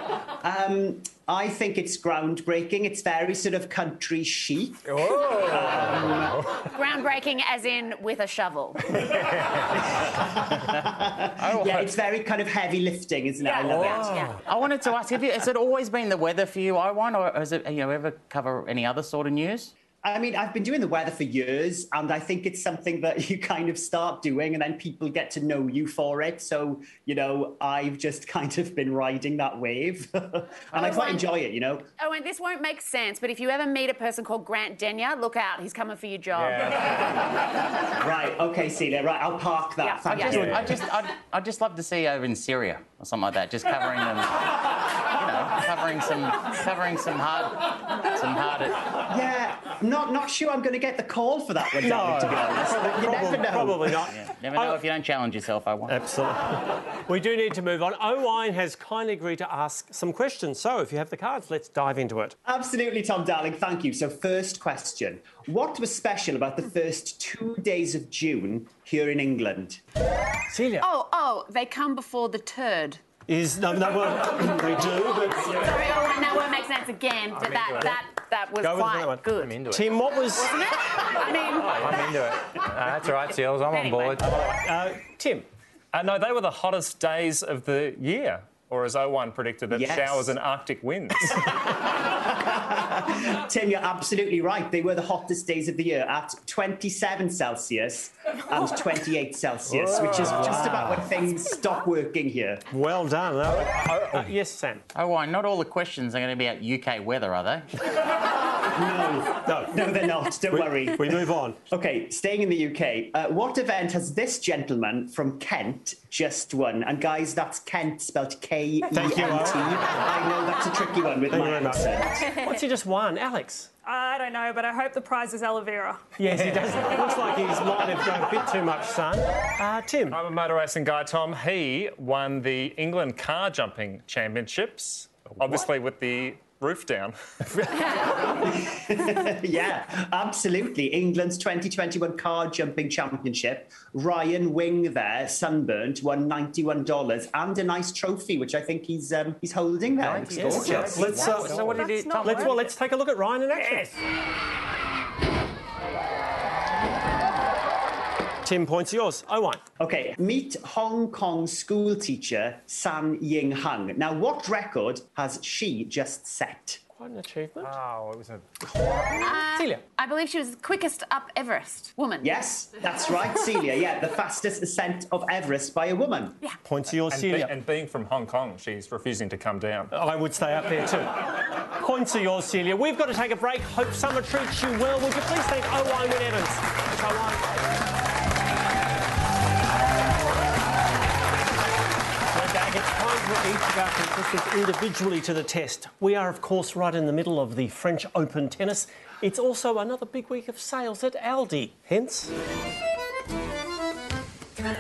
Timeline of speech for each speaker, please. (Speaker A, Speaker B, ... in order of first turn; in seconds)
Speaker A: 0.4-6.4, 10.0-14.2, 20.0-31.9, 38.0-40.8, 49.1-54.1, 62.5-69.8, 89.7-90.3, 91.9-102.6, 108.8-122.2, 138.4-151.1, 159.8-166.8, 172.2-176.4
Speaker B: 4.9-6.4, 9.3-9.6, 13.7-14.1, 36.3-37.2, 79.4-80.0, 81.7-84.3, 150.0-151.9, 153.6-153.9, 167.6-169.2
Speaker C: 6.7-9.1, 13.4-14.4, 30.8-31.3, 32.0-37.1, 39.8-40.5, 70.8-73.0, 75.4-79.6, 80.4-82.1, 83.7-84.2, 169.2-172.3
Speaker D: 13.8-14.3, 51.8-54.8, 55.9-62.4, 70.5-70.9, 73.3-75.8, 77.4-78.0, 78.6-80.6, 84.2-85.5, 99.8-101.0, 102.7-104.8, 109.4-109.8, 110.5-111.6, 118.9-119.8, 121.3-123.7, 126.2-130.2, 150.3-153.9, 158.4-159.6, 166.9-167.8, 168.6-169.8, 176.6-177.6, 179.9-187.4, 192.3-202.3
Speaker E: 14.4-19.7, 40.1-48.8, 54.1-56.0, 104.9-107.7, 151.2-152.4
Speaker F: 85.9-91.6, 130.1-137.2, 177.1-179.9
Speaker G: 123.8-126.1, 151.4-152.6